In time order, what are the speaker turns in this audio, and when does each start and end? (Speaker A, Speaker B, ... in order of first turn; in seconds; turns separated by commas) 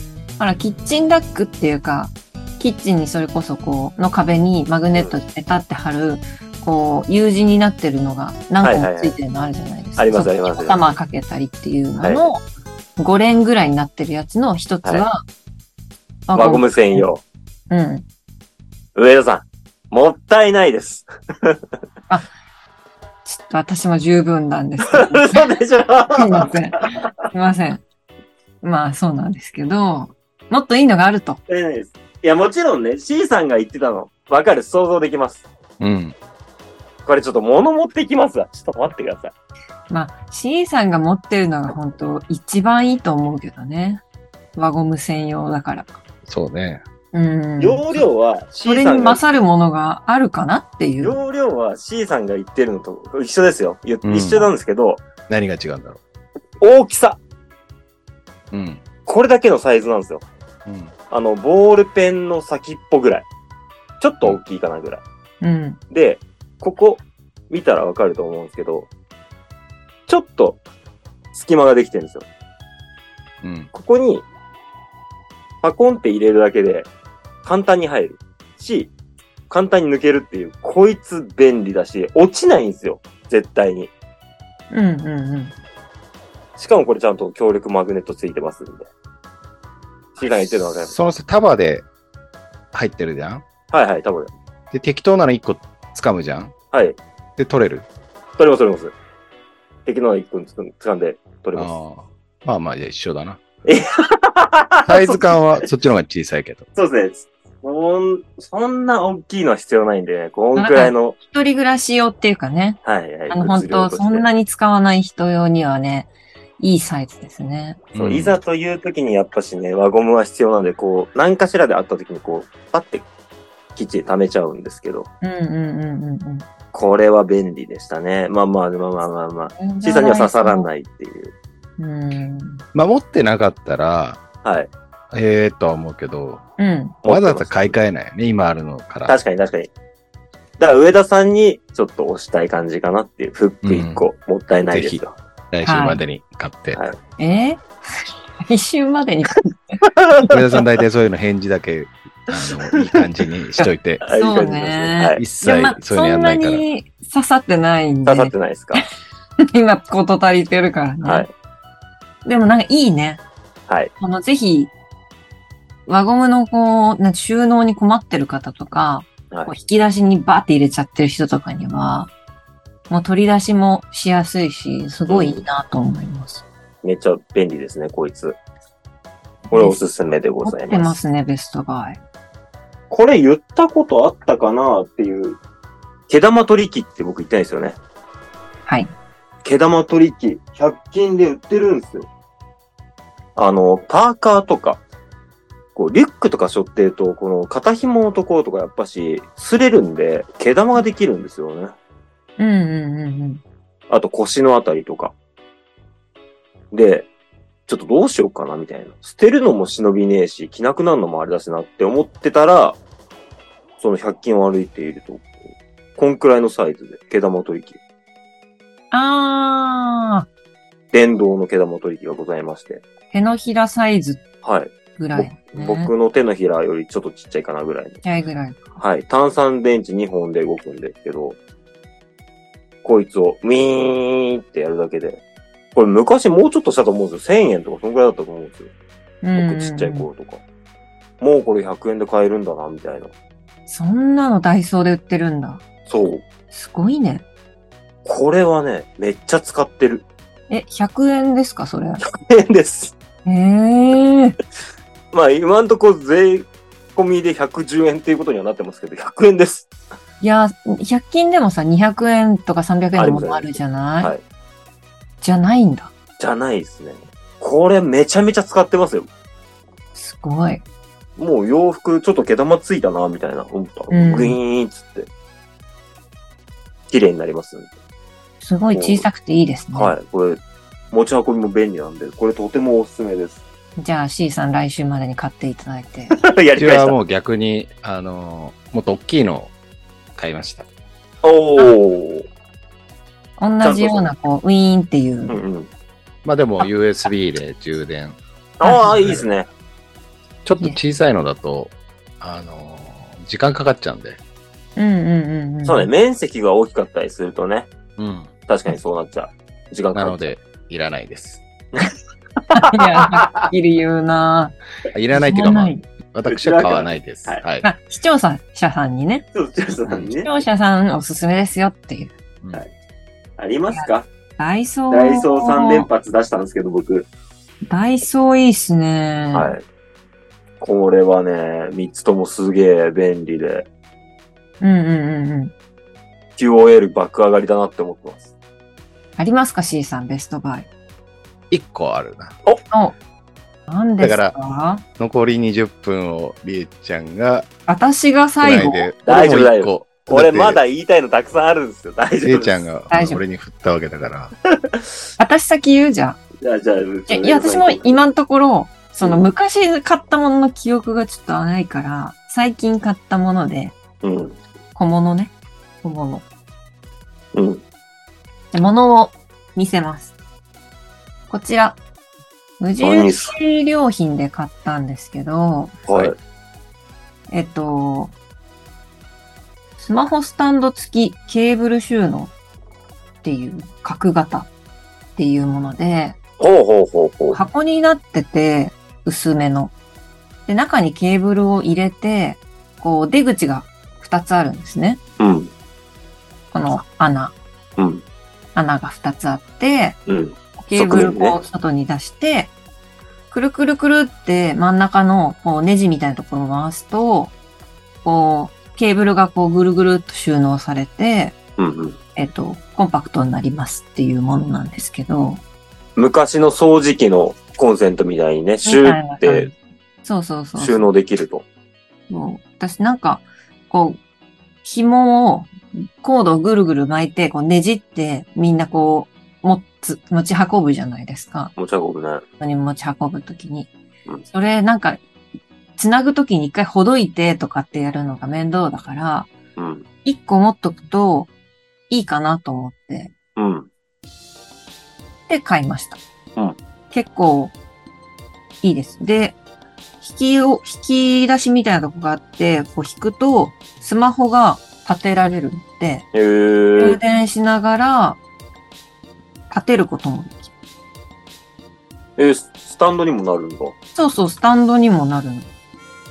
Speaker A: 0.4-12.4, Speaker B: 8.6-9.1, Speaker B: 10.0-10.9, Speaker A: 13.0-15.2, Speaker A: 16.3-17.1, Speaker B: 16.3-17.2, Speaker A: 17.7-18.1, Speaker B: 18.9-21.6, Speaker A: 23.2-25.5, Speaker B: 24.9-27.1, Speaker A: 26.1-27.8, Speaker A: 28.6-31.4, Speaker B: 31.5-35.5, Speaker C: 35.8-36.2, Speaker B: 37.1-39.3, Speaker A: 39.9-44.0, Speaker A: 44.6-46.0, Speaker C: 46.2-46.8, Speaker A: 47.1-47.9, Speaker B: 47.6-49.2, Speaker A: 48.6-51.2, Speaker B: 51.0-55.0, Speaker C: 54.0-54.5, Speaker C: 55.3-56.0, Speaker B: 56.6-57.2, Speaker C: 58.5-58.8, Speaker B: 59.1-60.2, Speaker C: 60.7-60.9, Speaker B: 61.1-63.2, Speaker B: 64.0-65.0, Speaker A: 65.4-65.8, Speaker B: 65.9-68.9, Speaker B: 70.1-70.6, Speaker B: 71.3-72.2, Speaker C: 73.4-73.7, Speaker B: 73.7-74.2, Speaker B: 75.6-76.9, Speaker B: 77.4-78.9, Speaker B: 79.5-83.9, Speaker A: 84.7-85.5, Speaker B: 86.6-88.9, Speaker B: 90.2-90.9, Speaker C: 90.9-91.8, Speaker C: 92.7-93.4, Speaker B: 93.7-94.3, Speaker C: 94.7-96.5, Speaker B: 96.7-97.0, Speaker C: 97.4-97.9, Speaker B: 98.4-98.9, Speaker B: 99.9-101.7, Speaker C: 101.5-103.4, Speaker B: 103.6-105.7, Speaker C: 104.8-106.7, Speaker B: 106.8-111.2, Speaker A: 110.6-117.8, Speaker B: 112.8-114.3, Speaker C: 117.9-118.4, Speaker B: 118.0-123.1, Speaker B: 123.8-125.1, Speaker A: 125.2-126.5, Speaker B: 126.7-131.3, Speaker A: 129.6-130.7, Speaker A: 131.8-132.6, Speaker C: 132.7-134.2, Speaker B: 134.4-134.7, Speaker C: 135.1-136.4, Speaker A: 136.6-137.0, Speaker B: 137.0-137.8, Speaker C: 137.1-139.2, Speaker B: 139.1-139.7, Speaker B: 140.6-145.1, Speaker C: 143.6-144.0, Speaker C: 144.7-146.8, Speaker A: 145.6-146.0, Speaker A: 147.2-150.2, Speaker C: 150.3-154.0, Speaker B: 152.3-153.2, Speaker A: 153.6-158.8, Speaker B: 154.0-155.2, Speaker C: 155.2-156.6, Speaker B: 158.1-158.9, Speaker A: 159.4-161.2, Speaker B: 161.0-161.3, Speaker A: 162.2-163.2, Speaker A: 164.0-164.7, Speaker A: 165.9-172.1, Speaker A: 172.9-176.4, Speaker B: 175.1-175.4, Speaker B: 176.8-178.4, Speaker A: 179.5-179.9, Speaker B: 179.5-181.0, Speaker A: 180.4-182.0, Speaker B: 182.9-185.4, Speaker B: 186.1-187.8, Speaker A: 188.7-188.9, Speaker B: 189.4-192.1, Speaker B: 193.4-194.8, Speaker B: 195.8-201.7, Speaker A: 202.4-203.4, Speaker B: 203.9-205.1, Speaker B: 206.7-207.1, Speaker B: 207.7-212.8, Speaker B: 213.8-215.4, Speaker B: 216.0-217.8, Speaker A: 218.9-220.2, Speaker B: 220.9-222.8, Speaker A: 223.1-224.2, Speaker B: 224.4-228.0, Speaker A: 225.0-225.9, Speaker A: 228.0-228.6, Speaker B: 228.8-231.4, Speaker B: 232.8-235.2, Speaker B: 235.8-238.7, Speaker A: 239.2-240.1, Speaker B: 239.4-240.4, Speaker B: 241.2-243.1, Speaker A: 243.7-245.6, Speaker B: 245.9-246.2, Speaker A: 246.5-247.2, Speaker B: 248.0-250.1, Speaker A: 250.5-252.0, Speaker B: 252.0-252.9, Speaker A: 253.2-254.4, Speaker B: 255.1-259.7, Speaker A: 260.2-264.1, Speaker B: 263.0-264.2, Speaker A: 265.2-265.9, Speaker B: 266.2-269.1, Speaker A: 269.9-270.6, Speaker B: 271.2-275.1, Speaker A: 273.9-274.4, Speaker B: 276.9-277.7, Speaker A: 278.4-279.9, Speaker B: 278.7-279.1, Speaker B: 279.8-280.4, Speaker B: 280.9-283.4, Speaker A: 283.8-286.2, Speaker B: 286.1-287.0, Speaker C: 286.5-289.5, Speaker C: 290.1-290.6, Speaker B: 291.2-292.2, Speaker A: 293.4-295.4, Speaker B: 293.6-294.1, Speaker B: 295.3-295.7, Speaker C: 296.2-298.2, Speaker B: 298.6-299.5, Speaker A: 298.6-299.2, Speaker C: 300.4-304.2, Speaker A: 304.8-305.9, Speaker B: 305.6-307.7, Speaker C: 308.0-308.3, Speaker B: 308.5-310.3, Speaker C: 309.9-311.4, Speaker B: 312.5-313.5, Speaker A: 312.5-314.5, Speaker C: 314.9-317.7, Speaker A: 315.1-315.8, Speaker B: 316.2-317.4, Speaker A: 317.6-319.2, Speaker B: 319.3-320.3, Speaker A: 320.2-322.1, Speaker B: 323.4-324.1, Speaker A: 323.7-325.9, Speaker B: 324.9-327.1, Speaker A: 327.6-329.5, Speaker B: 329.3-329.6, Speaker B: 330.6-333.7, Speaker A: 334.6-335.5, Speaker B: 336.4-338.3, Speaker A: 339.2-340.7, Speaker C: 341.5-342.4, Speaker A: 342.7-343.0, Speaker A: 343.7-344.8, Speaker C: 344.0-344.4, Speaker C: 345.0-347.5, Speaker A: 347.7-348.9, Speaker C: 348.4-350.6, Speaker B: 349.1-352.7, Speaker C: 352.2-354.3, Speaker A: 352.9-353.2, Speaker A: 355.2-356.2, Speaker B: 356.4-358.0, Speaker A: 357.1-363.8, Speaker B: 364.0-364.4, Speaker A: 364.8-366.2, Speaker B: 367.3-367.6, Speaker A: 368.5-370.1, Speaker A: 371.3-371.8, Speaker A: 372.6-375.9, Speaker B: 372.8-373.4, Speaker B: 375.9-376.1, Speaker A: 377.3-378.1, Speaker A: 379.8-382.3, Speaker A: 383.2-384.5, Speaker A: 385.1-386.2, Speaker B: 386.4-387.4, Speaker A: 387.3-389.7, Speaker A: 390.5-395.0, Speaker B: 395.2-395.5, Speaker A: 396.5-397.4, Speaker B: 397.8-398.0, Speaker A: 398.5-400.0, Speaker B: 400.1-401.4, Speaker A: 400.6-402.5, Speaker A: 403.3-407.3, Speaker A: 408.0-411.4, Speaker B: 411.6-412.0, Speaker A: 412.1-415.4, Speaker B: 416.0-419.5, Speaker A: 418.6-420.9, Speaker B: 420.6-421.4, Speaker A: 422.1-424.0, Speaker A: 424.6-431.5, Speaker B: 431.6-432.2, Speaker A: 432.4-433.7, Speaker A: 434.3-435.0, Speaker A: 435.8-439.3, Speaker B: 439.6-439.9, Speaker A: 440.0-441.3, Speaker A: 441.9-443.1, Speaker B: 443.4-443.7, Speaker A: 445.3-446.0, Speaker A: 446.9-447.5, Speaker A: 448.6-449.4, Speaker A: 450.0-456.1, Speaker B: 456.1-457.0, Speaker A: 456.8-458.2, Speaker A: 459.5-460.5, Speaker B: 462.2-463.8, Speaker A: 463.9-465.5